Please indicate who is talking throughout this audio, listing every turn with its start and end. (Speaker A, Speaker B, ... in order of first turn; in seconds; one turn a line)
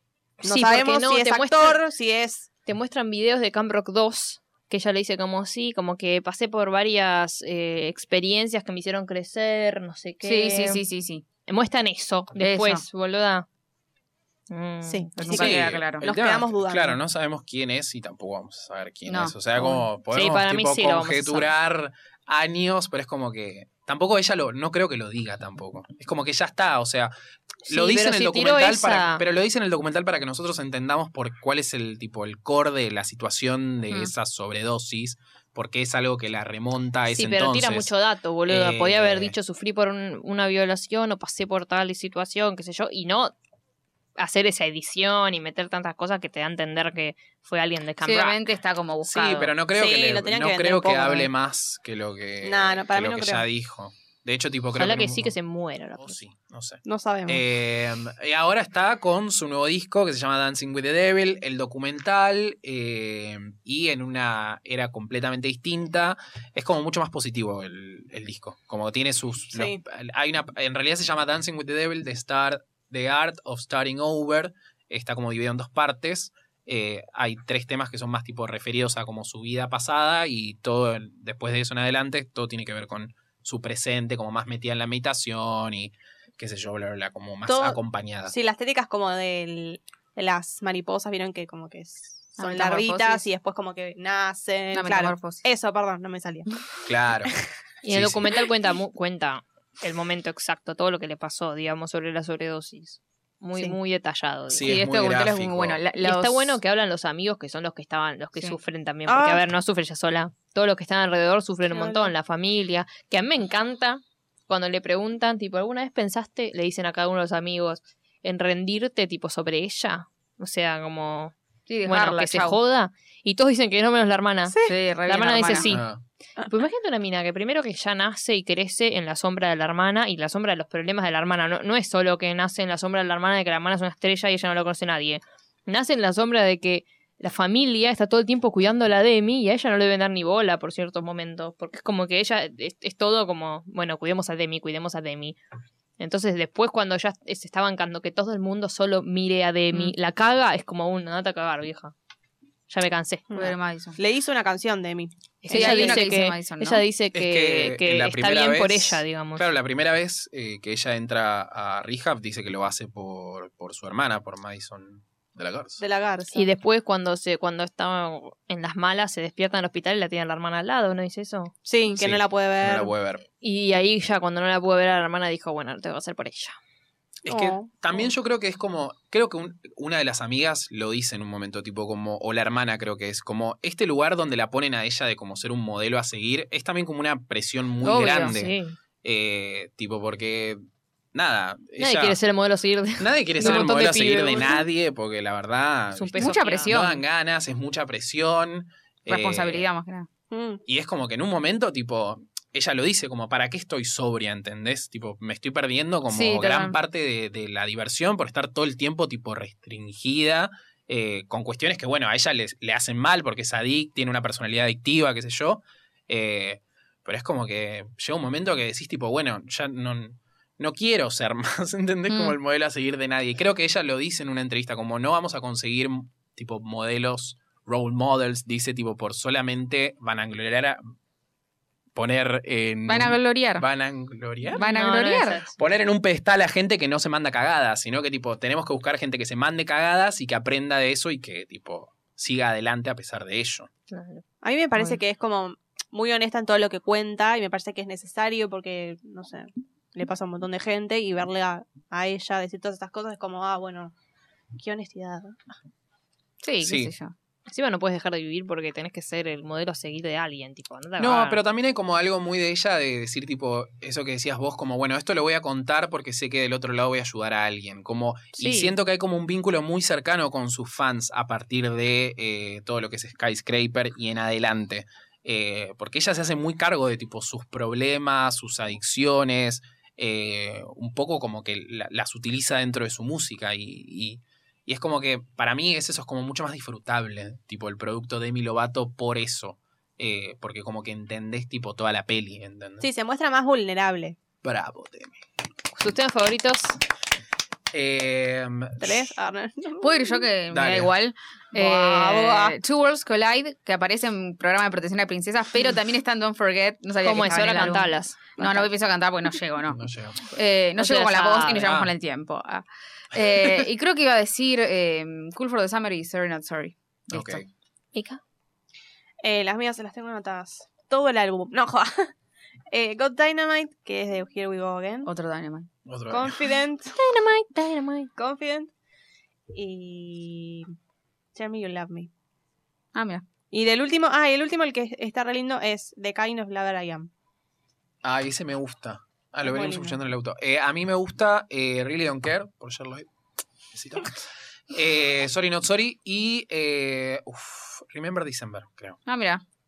Speaker A: 0.4-1.8
Speaker B: 0.4-2.5
Speaker A: 2.6-10.8
Speaker C: 10.2-11.2
Speaker A: 11.5-13.4
Speaker C: 12.4-12.8
Speaker A: 14.5-15.5
Speaker B: 14.8-17.0
Speaker C: 15.2-16.1
Speaker D: 15.3-27.1
Speaker C: 19.1-19.9
Speaker A: 20.1-21.5
Speaker D: 27.6-37.9
Speaker A: 27.7-29.2
Speaker A: 37.1-43.3
Speaker D: 38.5-39.4
Speaker A: 44.2-48.4
Speaker C: 48.0-49.5
Speaker D: 49.0-55.3
Speaker B: 49.7-51.3
Speaker B: 52.4-53.5
Speaker A: 54.8-56.1
Speaker D: 55.9-88.3
Speaker B: 56.8-57.4
Speaker B: 69.5-69.8
Speaker B: 87.5-96.5
Speaker C: 92.4-93.2
Speaker C: 94.7-95.4
Speaker D: 96.8-97.3
Speaker A: 97.8-104.7
Speaker D: 97.9-98.2
Speaker D: 104.5-105.8
Speaker C: 104.7-106.6
Speaker A: 106.0-121.3
Speaker B: 109.1-109.4
Speaker B: 111.7-112.1
Speaker C: 121.7-122.6
Speaker A: 121.8-125.9
Speaker B: 124.5-124.8
Speaker C: 124.6-125.7
Speaker D: 125.7-126.0
Speaker A: 126.4-145.4
Speaker A: 146.0-151.9
Speaker A: 152.7-153.3
Speaker B: 153.3-156.1
Speaker C: 153.3-154.0
Speaker A: 155.4-159.5
Speaker C: 155.5-156.8
Speaker D: 157.1-165.8
Speaker B: 165.8-166.5
Speaker A: 166.3-171.5
Speaker B: 171.6-172.9
Speaker D: 171.9-173.2
Speaker A: 173.4-176.5
Speaker D: 177.2-190.6
Speaker B: 177.3-178.1
Speaker C: 187.8-188.3
Speaker A: 188.2-188.7
Speaker D: 191.1-192.2
Speaker A: 191.8-194.7
Speaker D: 193.0-199.7
Speaker A: 195.9-196.7
Speaker C: 196.2-197.0
Speaker C: 199.1-200.1
Speaker B: 200.3-200.6
Speaker D: 200.7-230.8
Speaker C: 206.1-206.8
Speaker A: 222.1-222.3
Speaker D: 231.9-234.6
Speaker C: 232.9-233.6
Speaker A: 234.5-235.6
Speaker C: 234.6-235.4
Speaker D: 235.6-243.7
Speaker A: 243.9-244.2
Speaker B: 244.4-253.9
Speaker B: 254.5-255.4
Speaker C: 256.4-257.1
Speaker D: 256.6-256.9
Speaker A: 257.5-261.4
Speaker D: 261.0-292.9
Speaker A: 268.4-268.7
Speaker B: 292.8-294.2
Speaker D: 294.4-295.2
Speaker A: 295.7-296.8
Speaker D: 297.7-299.1
Speaker B: 298.8-300.2
Speaker C: 299.8-309.8
Speaker D: 300.5-300.9
Speaker B: 301.5-302.6
Speaker A: 307.0-308.7
Speaker D: 309.7-310.2
Speaker C: 310.3-317.4
Speaker A: 310.8-311.7
Speaker D: 311.6-311.9
Speaker D: 317.1-317.5
Speaker A: 317.9-318.2
Speaker B: 319.2-322.1
Speaker B: 322.7-325.1
Speaker C: 325.1-325.7
Speaker D: 325.9-326.3
Speaker B: 326.1-327.0
Speaker A: 326.9-328.1
Speaker B: 328.1-328.7
Speaker B: 329.5-330.7
Speaker B: 331.3-332.1
Speaker C: 332.9-333.2
Speaker B: 333.5-337.1
Speaker D: 338.0-343.1
Speaker B: 339.4-340.0
Speaker D: 343.7-344.2
Speaker D: 344.7-349.0
Speaker C: 349.1-349.4